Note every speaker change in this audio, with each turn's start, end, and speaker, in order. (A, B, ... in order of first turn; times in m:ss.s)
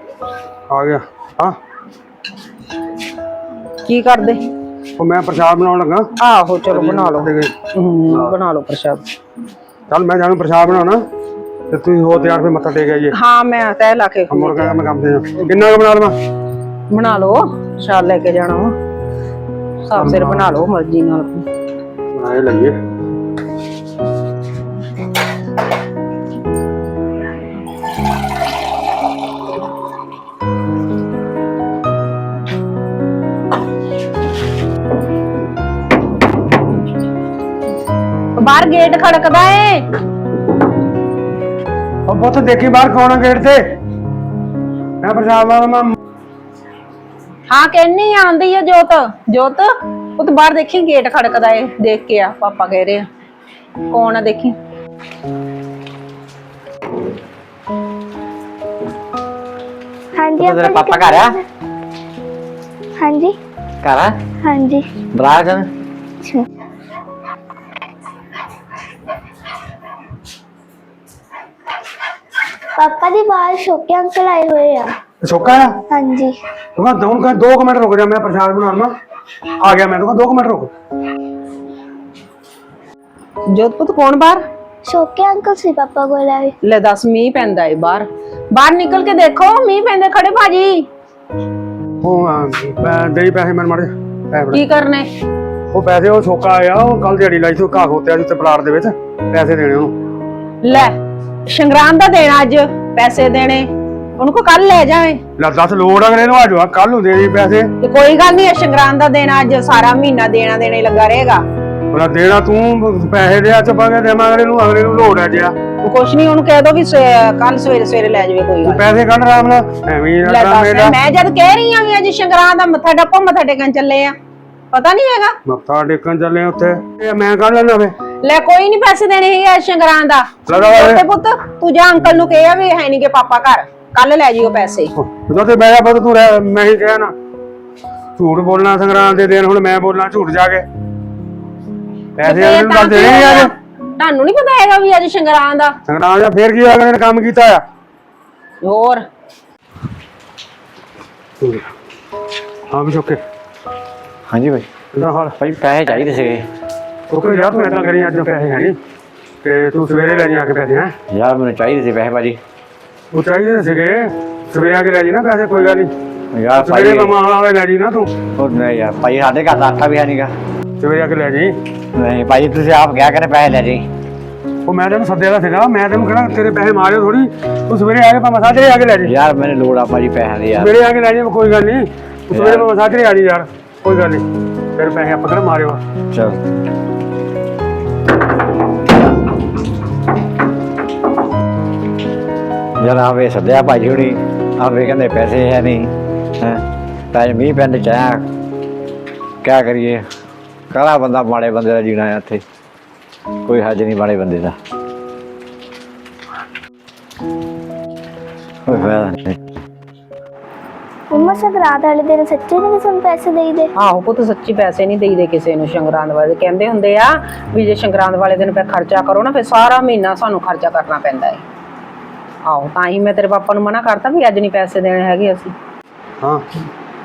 0:00.7-0:01.6 A
0:03.8-0:04.4 B
0:05.0-0:06.1 A
0:06.2-0:09.0 B
0:06.7-0:07.6 A
0:08.1-0:08.3 A
0:09.9-0:11.0 A
0:11.7-0:13.2 A
0:13.1-0:14.8 B
0:14.3-0:16.2 A
0:16.9-0:18.8 B
0:19.8-0:21.4 B
0:20.0-0:20.5 A
0:22.1-0:22.8 A
0:38.4-0:39.9 B
0:42.1-0:43.8 A
0:45.0-0:45.9 A
0:47.5-0:53.1 B
0:53.9-0:54.6 B
1:00.2-1:01.4 C
1:00.4-1:01.4 D
1:03.0-1:03.4 C
1:03.8-1:04.2 D
1:04.4-1:04.9 C
1:05.1-1:05.7 D
1:06.2-1:06.5 C
1:12.8-1:14.9 C
1:15.2-1:15.8 A
1:15.9-1:16.4 C
1:16.8-1:18.9 A
1:19.6-1:20.7 A
1:23.5-1:24.4 B
1:24.8-1:26.6 C
1:26.6-1:30.9 B
1:32.0-1:34.6 A
1:34.5-1:35.1 B
1:35.7-1:39.9 A
1:40.6-1:40.9 B
1:41.5-1:45.2 B
1:45.4-1:47.7 A
1:47.8-1:51.4 B
1:51.9-1:55.6 A
1:55.8-1:58.8 B
1:58.6-2:01.0 A
2:00.2-2:04.2 B
2:04.7-2:05.4 B
2:05.4-2:08.0 A
2:08.2-2:14.9 B
2:10.5-2:11.0 A
2:15.0-2:17.1 A
2:18.2-2:20.7 A
2:22.2-2:23.5 A
2:22.2-2:25.8 B
2:25.9-2:27.6 A
2:28.6-2:29.0 B
2:32.7-2:33.2 A
2:34.3-2:34.7 D
2:34.9-2:35.4 A
2:35.4-2:36.5 D
2:37.1-2:38.8 A
2:39.4-2:40.9 A
2:41.1-2:42.4 D
2:43.1-2:45.9 A
2:46.3-2:47.1 D
2:46.6-2:48.1 A
2:48.4-2:50.3 D
2:50.8-2:51.6 A
2:52.0-2:53.8 D
2:54.7-2:59.1 A
2:59.1-3:00.7 D
3:00.6-3:04.2 A
3:02.3-3:02.7 D
3:04.8-3:05.8 A
3:06.1-3:06.4 D
3:12.8-3:18.3 D
3:19.4-3:20.1 D
3:20.7-3:22.4 D
3:23.4-3:24.6 D
3:28.6-3:29.4 D
3:31.1-3:33.7 C
3:33.8-3:41.4 B
3:42.4-3:45.6 B